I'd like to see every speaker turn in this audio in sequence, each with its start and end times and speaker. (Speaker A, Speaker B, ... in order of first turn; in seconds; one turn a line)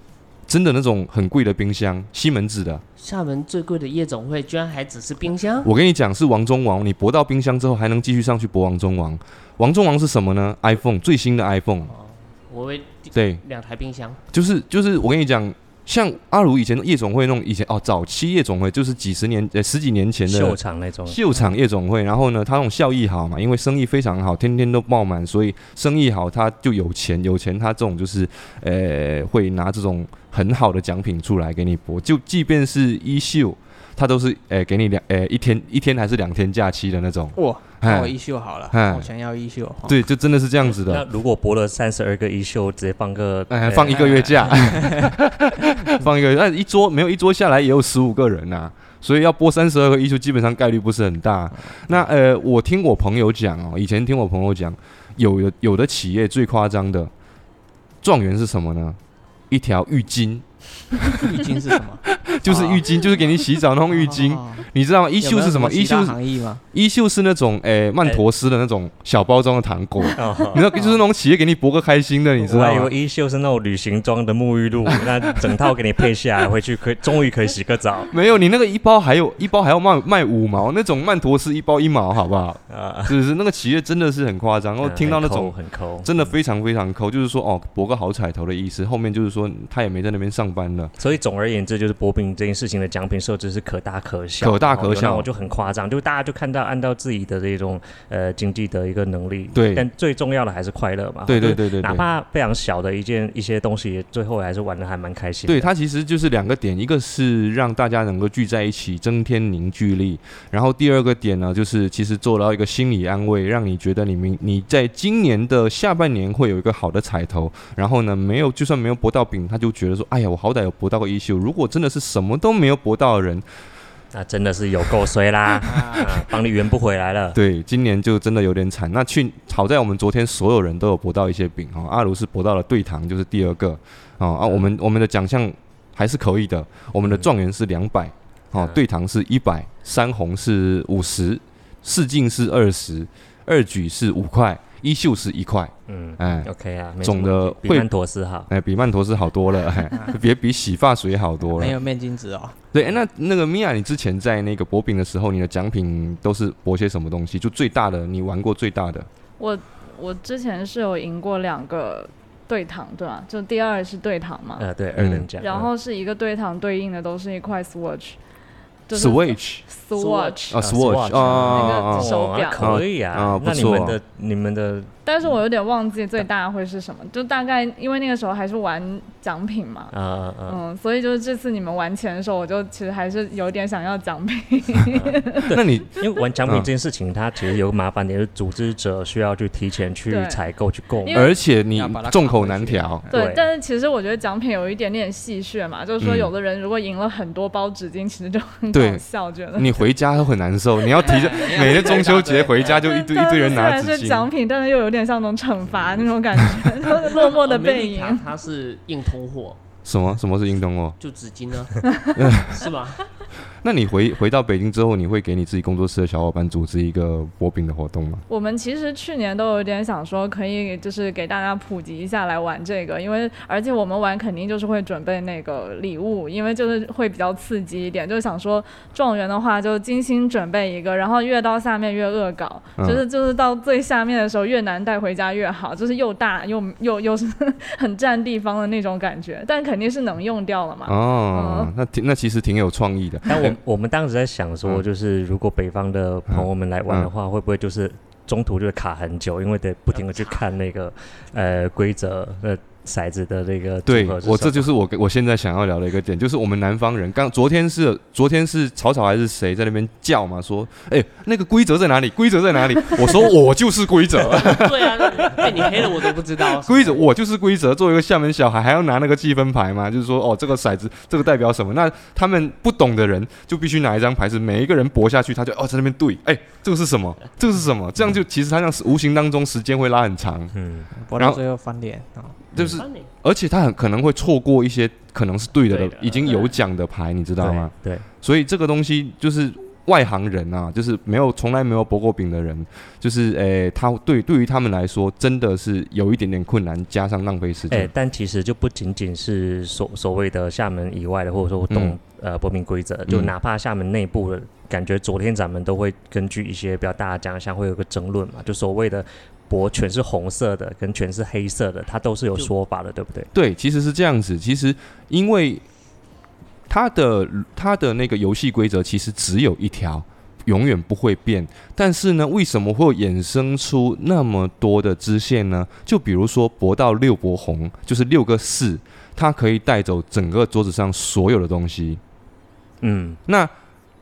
Speaker A: 0.5-2.8
Speaker B: 3.0-5.7
Speaker A: 5.6-11.9
Speaker B: 11.9-14.2
Speaker A: 13.1-13.4
Speaker A: 14.3-38.1
Speaker C: 20.3-21.2
Speaker D: 37.3-40.0
Speaker A: 38.7-39.1
Speaker A: 39.8-41.0
Speaker C: 40.7-44.5
Speaker A: 43.5-57.1
Speaker D: 43.9-45.1
Speaker A: 58.0-59.0
Speaker A: 59.5-60.4
Speaker D: 61.1-63.3
Speaker A: 62.2-72.9
Speaker D: 63.9-64.7
Speaker D: 65.2-66.6
Speaker C: 70.1-70.7
Speaker C: 72.4-78.1
Speaker A: 78.1-90.9
Speaker C: 82.7-83.1
Speaker C: 84.8-86.3
Speaker C: 91.0-105.7
Speaker A: 94.4-95.3
Speaker A: 99.5-99.9
Speaker A: 101.3-102.0
Speaker A: 105.5-123.4
Speaker C: 124.1-127.4
Speaker D: 125.6-126.2
Speaker A: 127.3-146.5
Speaker C: 145.9-148.5
Speaker A: 147.0-147.9
Speaker A: 148.5-151.8
Speaker D: 151.5-152.6
Speaker A: 152.7-159.1
Speaker E: 159.4-164.7
Speaker C: 164.6-165.7
Speaker A: 164.9-165.3
Speaker E: 165.4-168.2
Speaker E: 168.9-170.5
Speaker A: 168.9-169.6
Speaker B: 169.9-170.5
Speaker A: 170.5-174.0
Speaker C: 170.6-175.4
Speaker E: 171.1-172.7
Speaker E: 175.1-179.9
Speaker C: 179.9-180.6
Speaker E: 180.5-185.4
Speaker C: 184.9-191.3
Speaker A: 185.5-186.7
Speaker E: 190.1-190.4
Speaker E: 191.0-191.3
Speaker A: 191.1-193.0
Speaker D: 191.7-193.2
Speaker E: 193.1-199.9
Speaker C: 193.1-193.4
Speaker A: 196.0-196.3
Speaker A: 198.7-199.0
Speaker A: 199.5-204.3
Speaker D: 200.9-202.5
Speaker E: 201.0-201.6
Speaker E: 202.6-208.2
Speaker B: 207.0-209.6
Speaker A: 209.8-211.0
Speaker B: 211.0-211.8
Speaker A: 212.2-212.5
Speaker B: 212.3-213.0
Speaker A: 213.6-218.2
Speaker E: 218.3-241.7
Speaker A: 232.8-233.0
Speaker A: 240.8-243.6
Speaker C: 243.2-254.7
Speaker A: 246.3-247.1
Speaker B: 249.9-250.4
Speaker A: 253.8-280.5
Speaker B: 264.2-267.1
Speaker C: 280.5-280.9
Speaker D: 280.9-282.4
Speaker A: 282.5-297.9
Speaker B: 282.6-283.1
Speaker B: 285.6-286.5
Speaker C: 287.4-288.0
Speaker C: 297.7-313.3
Speaker A: 301.7-301.9
Speaker A: 313.3-315.6
Speaker A: 316.7-332.0
Speaker C: 332.8-333.2
Speaker A: 333.3-333.5